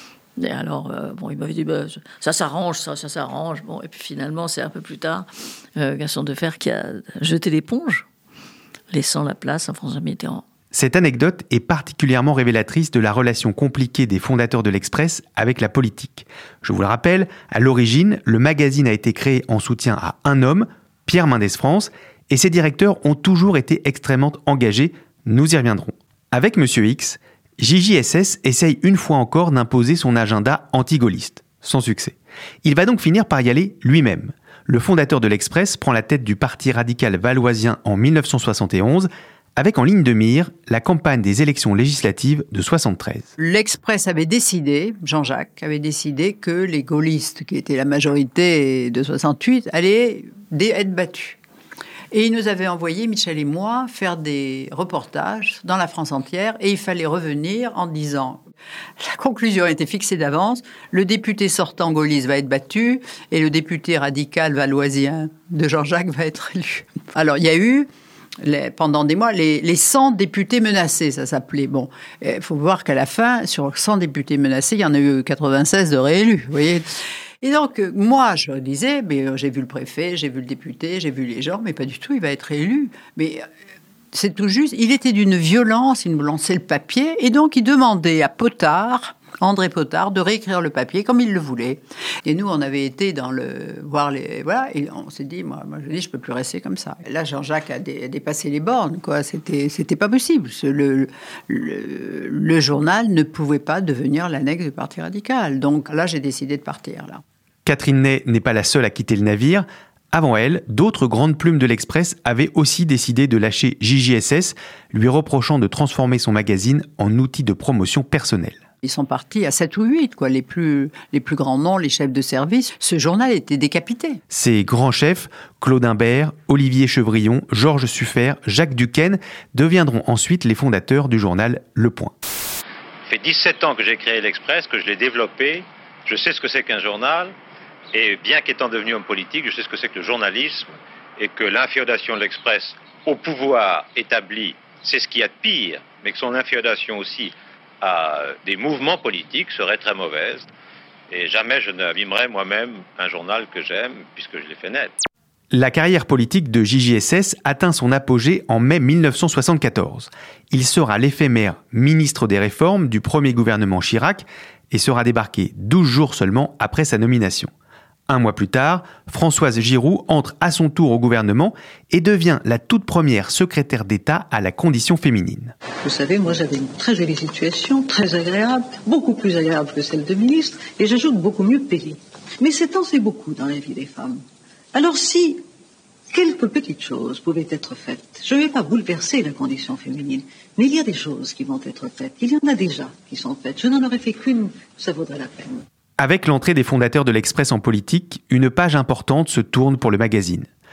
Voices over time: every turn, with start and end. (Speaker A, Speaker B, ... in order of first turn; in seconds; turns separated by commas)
Speaker A: 0.4-8.1, Speaker A: 8.9-10.4, Speaker B: 10.7-43.3, Speaker C: 43.4-51.4, Speaker C: 52.1-58.4, Speaker C: 59.0-76.9, Speaker C: 77.4-83.5, Speaker C: 84.1-107.2, Speaker B: 107.7-118.6, Speaker C: 118.8-124.2, Speaker B: 124.3-132.1, Speaker D: 133.1-137.3, Speaker D: 137.9-150.5, Speaker D: 151.1-154.9, Speaker B: 155.5-167.5, Speaker B: 168.1-175.5, Speaker E: 175.8-184.2, Speaker E: 184.7-185.4, Speaker E: 186.1-195.6, Speaker B: 196.0-200.5